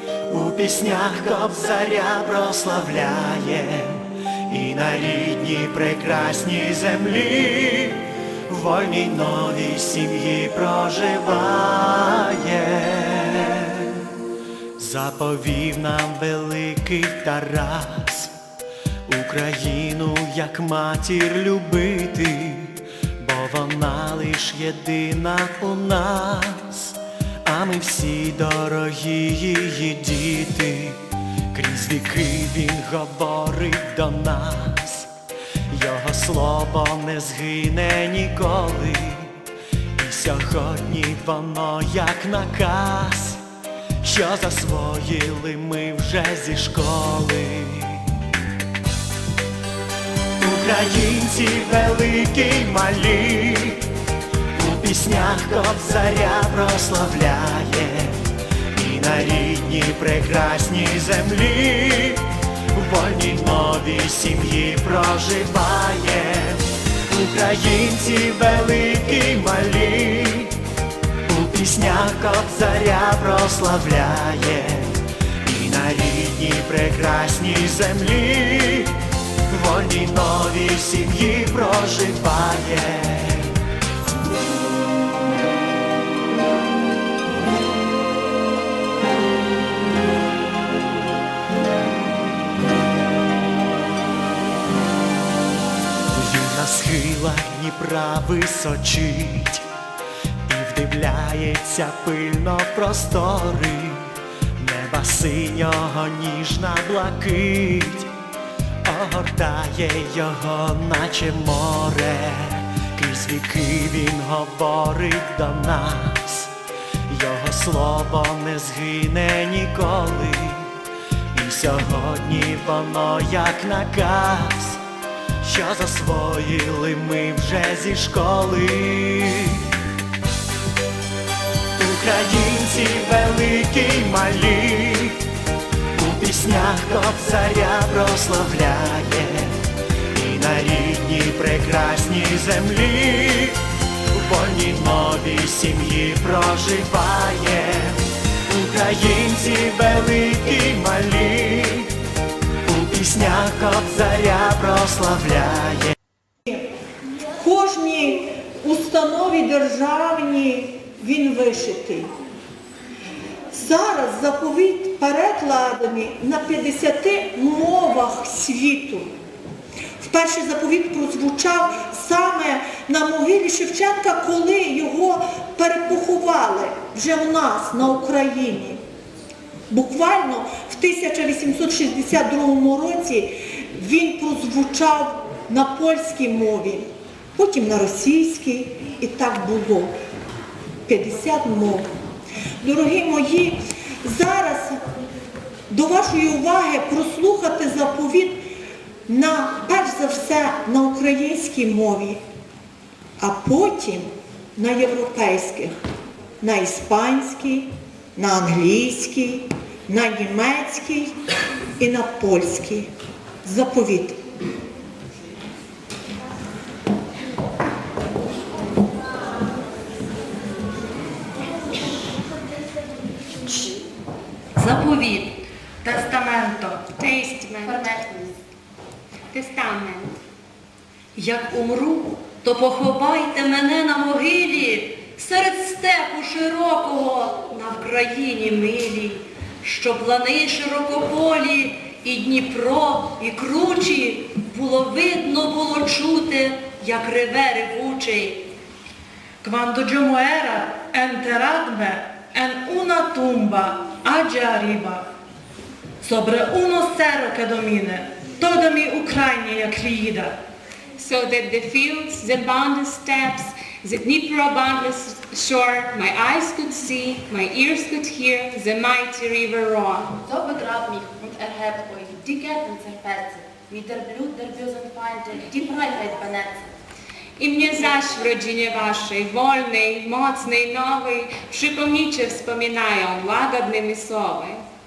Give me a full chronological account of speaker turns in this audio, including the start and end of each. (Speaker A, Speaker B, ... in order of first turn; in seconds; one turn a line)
Speaker A: 0.3-14.2
Speaker A: 14.8-18.3
Speaker A: 19.1-35.1
Speaker A: 35.7-39.5
Speaker A: 40.0-43.4
Speaker A: 44.0-48.3
Speaker A: 50.4-53.9
Speaker A: 54.5-70.6
Speaker A: 71.3-83.6
Speaker A: 96.1-99.7
Speaker A: 100.5-108.1
Speaker A: 108.8-116.5
Speaker A: 117.1-120.8
Speaker A: 121.3-124.8
Speaker A: 125.4-129.8
Speaker A: 131.8-135.2
Speaker A: 135.9-151.9
Speaker A: 152.6-155.9
Speaker B: 157.4-162.1
Speaker B: 163.5-169.1
Speaker B: 170.0-178.8
Speaker B: 179.7-189.9
Speaker B: 190.9-191.9
Speaker B: 192.6-194.8
Speaker B: 195.7-198.4
Speaker B: 199.1-202.2
Speaker B: 203.2-205.7
Speaker B: 206.4-211.2
Speaker B: 211.8-212.9
Speaker B: 213.4-214.2
Speaker C: 224.6-225.4
Speaker D: 225.8-226.9
Speaker E: 226.9-227.8
Speaker F: 227.6-228.4
Speaker E: 229.3-230.2
Speaker C: 231.2-248.4
Speaker D: 249.4-255.1
Speaker D: 256.0-260.4
Speaker E: 261.0-270.2
Speaker F: 270.2-276.6
Speaker E: 277.4-284.6